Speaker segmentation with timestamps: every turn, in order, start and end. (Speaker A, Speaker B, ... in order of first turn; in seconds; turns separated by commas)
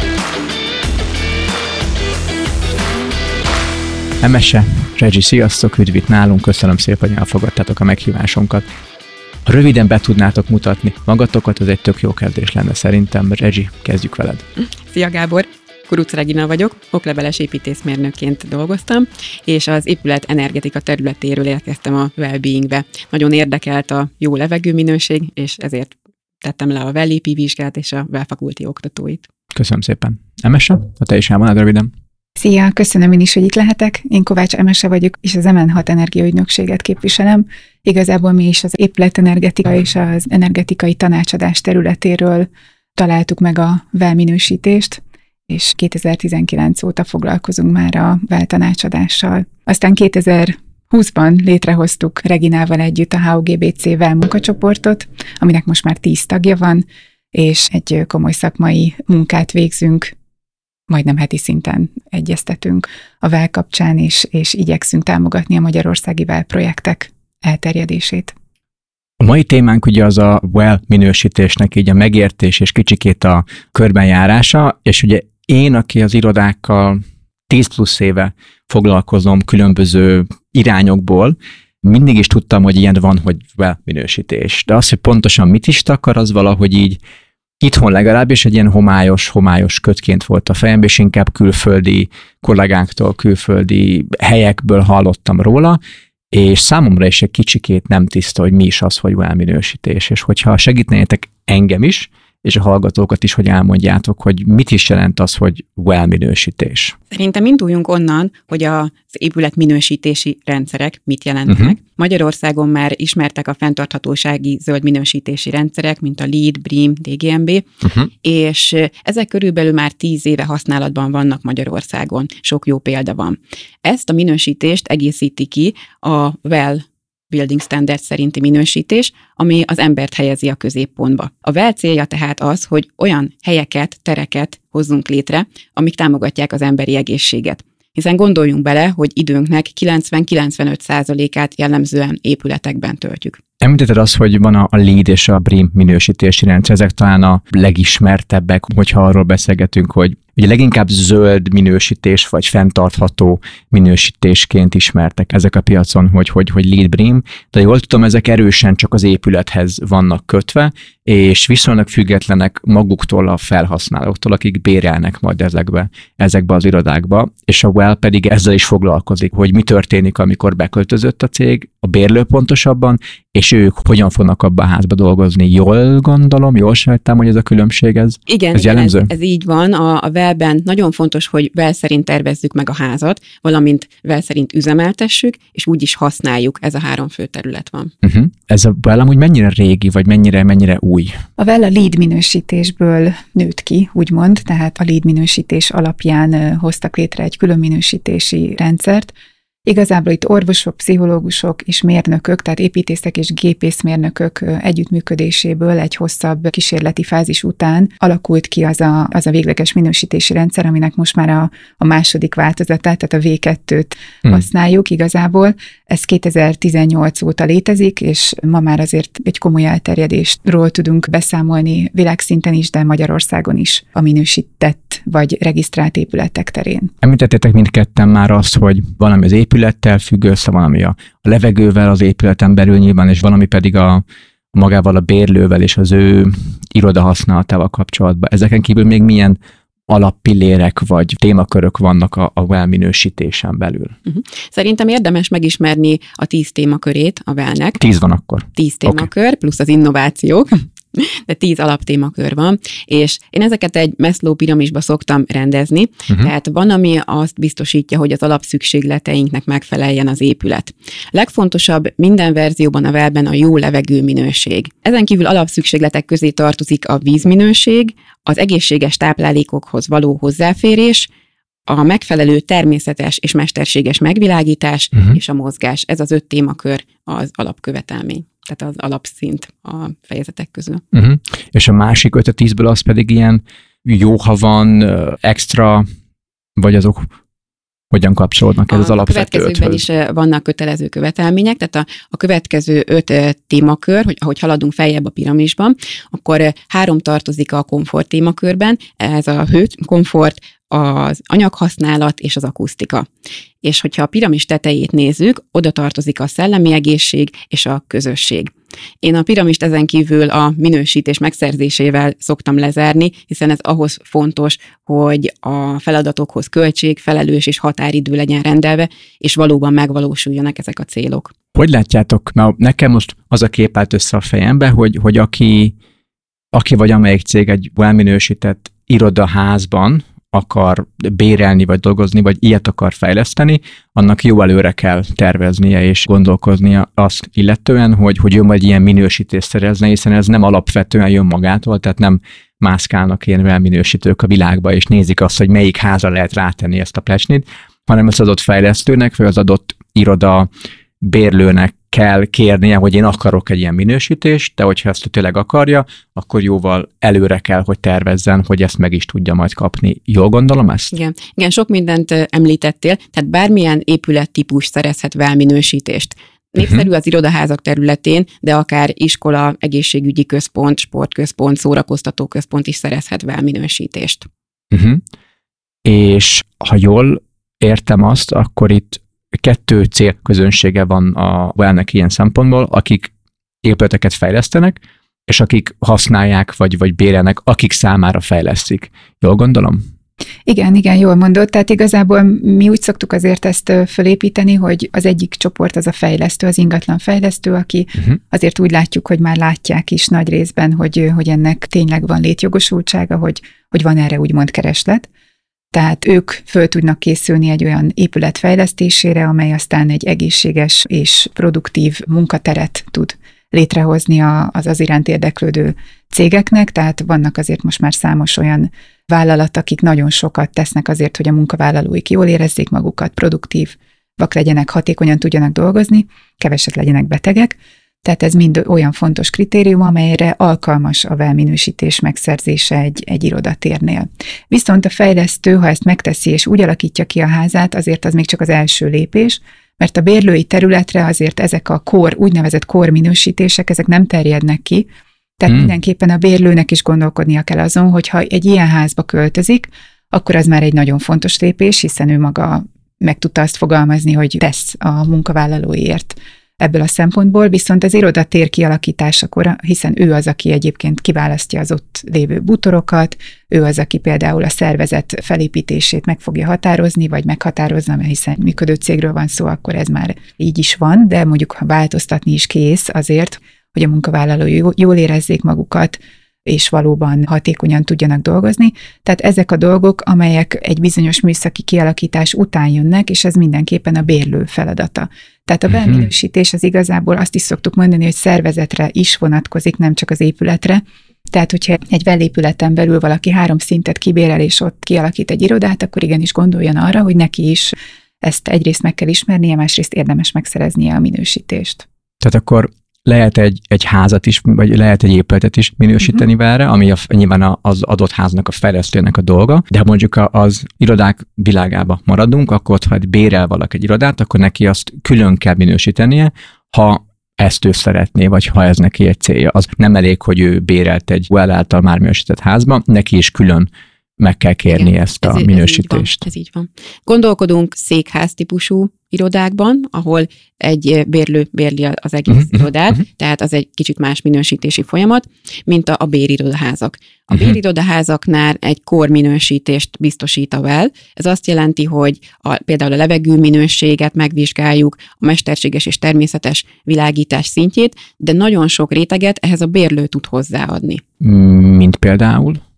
Speaker A: 4.2-8.7, Speaker A: 9.5-14.4, Speaker B: 14.7-29.3, Speaker A: 29.5-31.9, Speaker C: 32.4-60.1, Speaker C: 60.9-68.3, Speaker A: 69.2-87.0, Speaker A: 87.6-95.8, Speaker A: 96.3-107.0, Speaker B: 107.1-117.7, Speaker A: 111.5-111.8, Speaker A: 117.8-118.1, Speaker B: 118.2-143.4, Speaker A: 143.6-179.1, Speaker B: 178.3-187.9, Speaker A: 188.0-191.1, Speaker C: 191.4-199.1, Speaker C: 199.7-226.9, Speaker A: 227.0-243.9, Speaker B: 244.1-247.8, Speaker A: 247.8-249.1, Speaker B: 248.6-271.1, Speaker B: 271.7-280.8, Speaker A: 280.9-285.9, Speaker A: 286.6-287.1, Speaker A: 287.9-289.8, Speaker B: 288.7-303.1, Speaker B: 303.6-308.5, Speaker B: 309.0-321.3, Speaker A: 321.5-325.8, Speaker A: 326.5-350.5, Speaker A: 351.0-360.9, Speaker B: 360.9-374.3, Speaker A: 374.7-375.0, Speaker A: 375.9-383.1, Speaker A: 383.6-389.8, Speaker C: 390.5-405.1, Speaker C: 405.7-501.9, Speaker A: 485.7-486.1, Speaker A: 502.2-523.7, Speaker A: 524.2-526.2, Speaker B: 524.7-551.0, Speaker A: 532.3-532.6, Speaker A: 537.3-537.6, Speaker A: 551.2-552.6